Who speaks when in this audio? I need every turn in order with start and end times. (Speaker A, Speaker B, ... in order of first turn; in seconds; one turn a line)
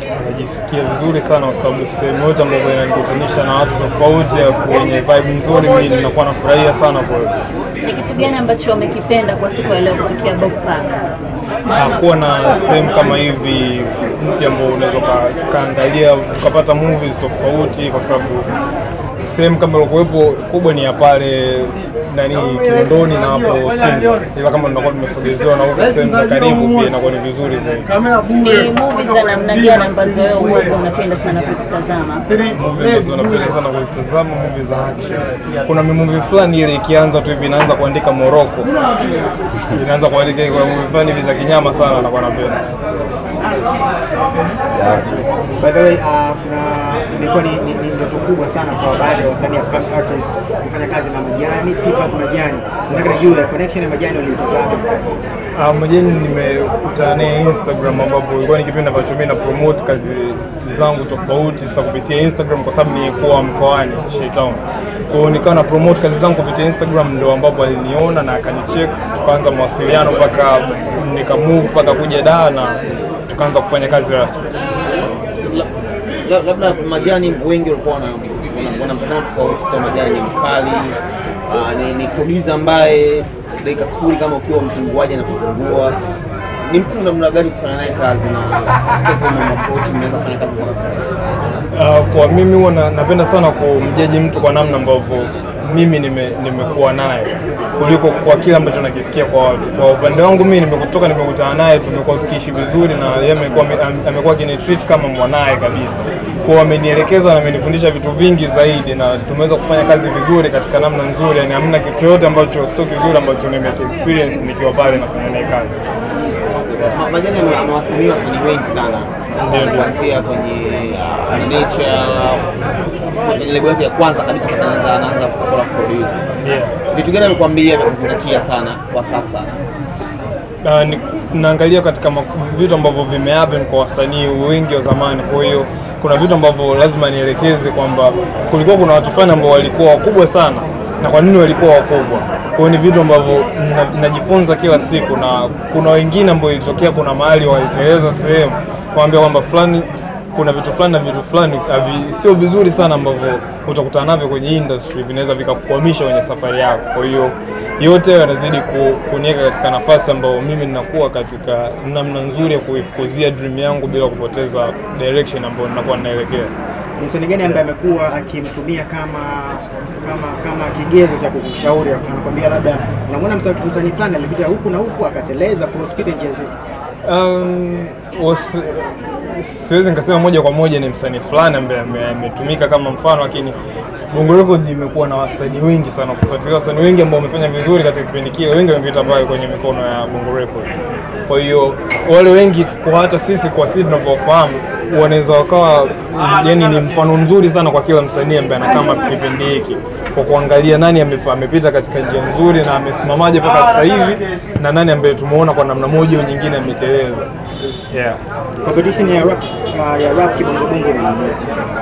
Speaker A: 0.1-7.4
Speaker B: 7.8-10.9
Speaker A: 11.7-18.5
Speaker A: 19.2-27.9
Speaker B: 28.3-32.3
Speaker A: 32.4-38.7
Speaker A: 39.7-42.6
Speaker C: 45.6-55.0
Speaker A: 55.5-74.4
Speaker D: 75.4-75.7
Speaker D: 76.2-86.0
Speaker D: 86.6-91.0
Speaker A: 91.7-115.8
Speaker D: 116.5-119.1
Speaker A: 119.4-119.9
Speaker D: 119.6-122.5
Speaker D: 123.3-126.2
Speaker A: 126.4-126.7
Speaker D: 126.9-129.5
Speaker A: 130.6-166.5
Speaker C: 167.0-176.5
Speaker A: 177.1-183.6
Speaker A: 184.1-190.8
Speaker A: 191.3-207.3
Speaker A: 207.9-208.2
Speaker C: 208.6-211.4